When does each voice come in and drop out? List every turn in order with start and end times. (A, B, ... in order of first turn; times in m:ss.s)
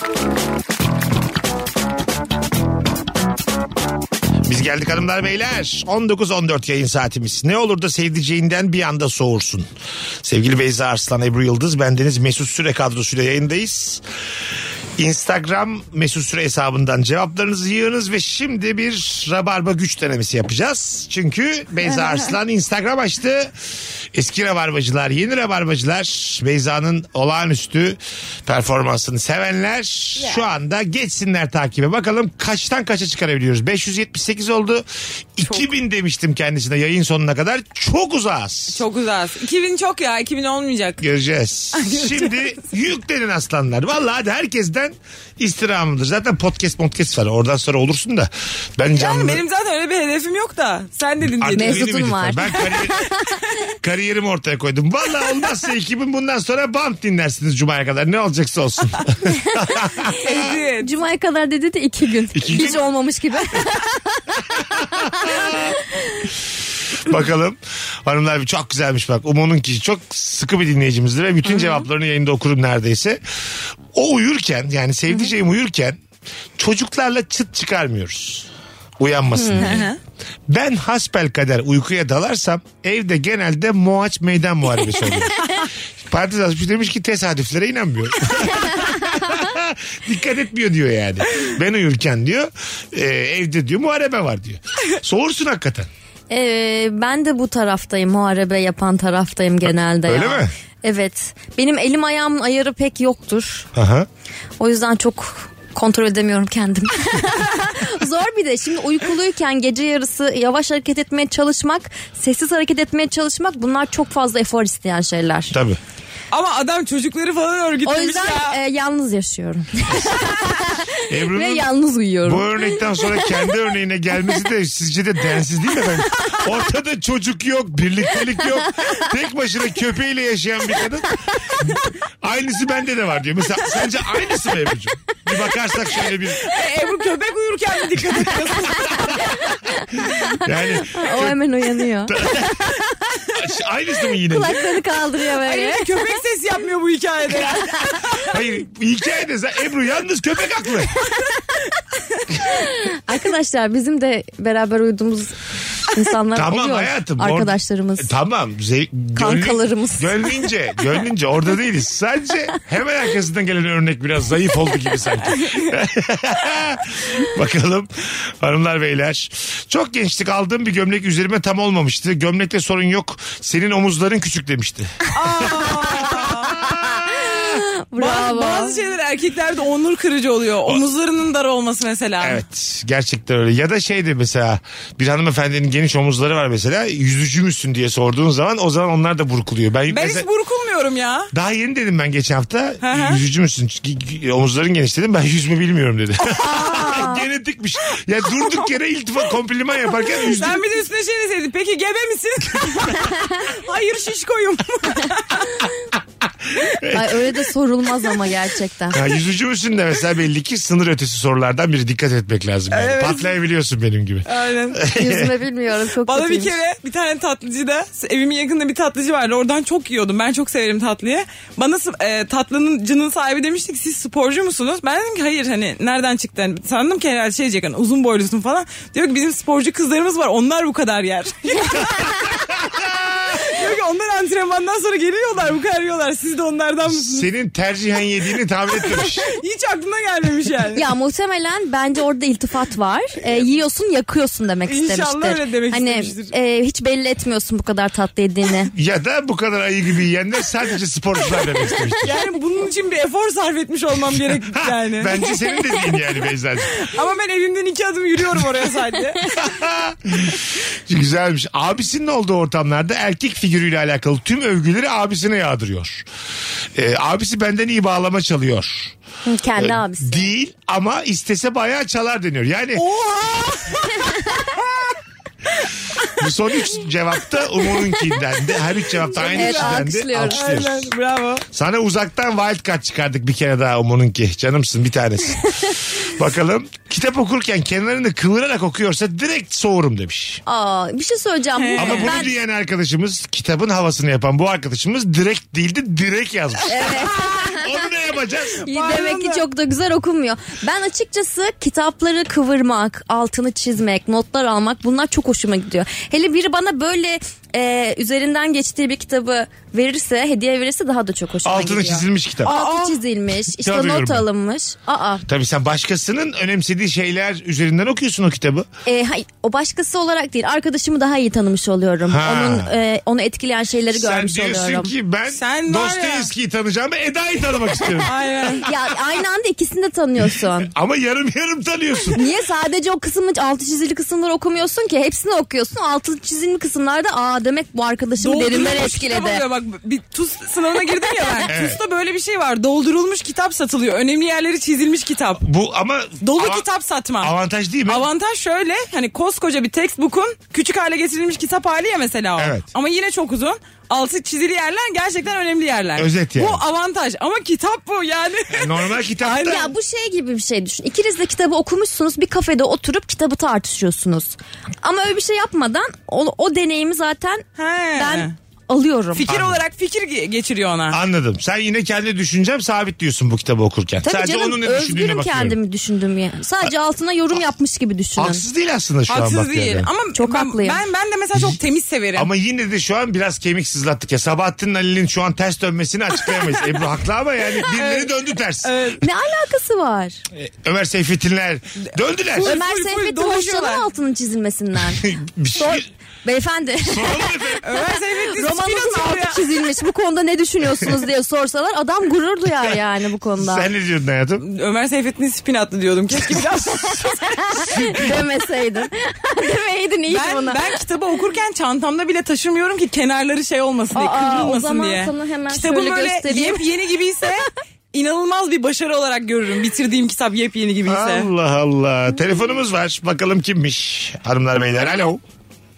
0:04.4-0:09.7 A
0:10.2-0:14.0 A
0:15.0-0:23.5 A
0:24.1-0:38.8 A
0:38.7-0:41.0 B
0:41.0-0:49.4 A
0:41.8-0:42.4 B
0:48.9-0:51.8 B
0:51.2-0:53.0 A
0:51.6-0:53.2 C
0:53.8-1:00.4 A
1:00.2-1:00.9 B
1:00.8-1:06.2 C
1:02.3-1:02.8 A
1:05.2-1:05.8 A
1:07.0-1:13.2 A
1:13.9-1:16.0 A
1:16.6-1:19.9 A
1:19.4-1:19.7 C
1:19.6-1:20.0 B
1:20.5-1:25.5 A
1:26.1-1:35.9 A
1:36.3-1:43.7 C
1:40.1-1:40.5 A
1:43.8-1:44.1 A
1:44.6-1:55.5 C
1:55.5-1:55.8 A
1:56.3-1:58.6 B
1:57.9-2:02.7 C
2:01.1-2:01.7 A
2:02.2-2:11.7 A
2:12.2-2:16.4 A
2:16.4-2:19.3 B
2:20.4-2:21.4 A
2:20.8-2:22.2 C
2:22.1-2:22.6 A
2:23.3-2:24.6 A
2:24.3-2:25.9 C
2:25.4-2:28.2 B
2:28.2-2:30.9 A
2:32.9-2:35.3 C
2:35.9-2:38.1 C
2:36.4-2:57.6 A
2:39.2-2:40.4 C
2:55.1-2:56.6 B
2:57.1-2:58.8 C
2:58.0-3:02.4 B
3:02.2-3:10.3 A
3:09.9-3:11.3 B
3:11.3-3:20.6 A
3:12.8-3:13.2 B
3:16.4-3:17.2 B
3:20.3-3:25.6 B
3:26.6-3:27.4 A
3:26.9-3:29.0 C
3:28.9-3:35.3 A
3:32.7-3:33.3 B
3:34.3-3:34.8 B
3:34.9-3:36.6 C
3:36.1-3:52.1 B
3:52.6-3:53.4 A
3:53.4-3:57.3 B
3:56.9-3:59.3 A
3:59.3-4:00.8 B
4:00.8-4:08.7 C
4:04.7-4:06.3 B
4:08.7-4:12.1 A
4:12.0-4:15.2 B
4:14.2-4:16.8 A
4:16.7-4:19.3 B
4:19.4-4:26.1 A
4:26.8-4:29.0 A
4:29.3-4:30.3 C
4:29.6-4:32.8 A
4:32.8-4:34.6 B
4:36.2-4:40.9 A
4:39.2-4:41.4 B
4:39.3-4:40.4 C
4:41.5-4:50.4 A
4:50.5-4:52.3 C
4:51.6-4:52.2 B
4:51.8-4:58.6 A
4:56.7-4:57.7 C
4:58.7-5:15.2 C
4:58.7-4:59.4 B
5:11.4-5:12.5 A
5:12.4-5:13.0 B
5:13.5-5:14.2 A
5:15.3-5:18.7 A
5:18.9-5:24.9 C
5:22.1-5:22.7 A
5:23.9-5:28.7 A
5:25.3-5:26.3 B
5:28.0-5:28.6 B
5:28.6-5:30.7 C
5:30.6-5:32.2 A
5:32.2-5:39.4 C
5:38.2-5:45.4 B
5:41.5-5:41.8 A
5:45.4-5:46.6 A
5:46.2-5:47.3 B
5:47.2-5:48.1 A
5:47.9-5:59.7 B
5:52.4-5:52.6 A
5:56.0-5:56.6 A
5:58.5-5:59.7 A
5:59.4-6:07.4 C
6:07.6-6:08.3 B
6:08.0-6:09.2 C
6:09.2-6:11.0 B
6:09.2-6:09.6 A
6:10.9-6:15.6 A
6:14.0-6:18.4 C
6:18.2-6:19.9 A
6:19.1-6:22.3 B
6:20.1-6:20.8 C
6:22.2-6:28.8 A
6:27.7-6:28.1 B
6:28.6-6:29.0 B
6:29.0-6:30.2 C
6:30.3-6:32.5 A
6:32.4-6:33.8 B
6:32.4-6:35.0 C
6:35.0-6:35.9 A
6:35.6-6:37.3 C
6:36.8-6:37.8 A
6:37.6-6:39.4 B
6:38.4-6:43.7 C
6:43.4-6:44.4 A
6:44.4-6:47.6 B
6:47.3-6:50.8 C
6:50.1-7:01.3 B
6:53.9-6:56.7 C
7:00.9-7:05.2 A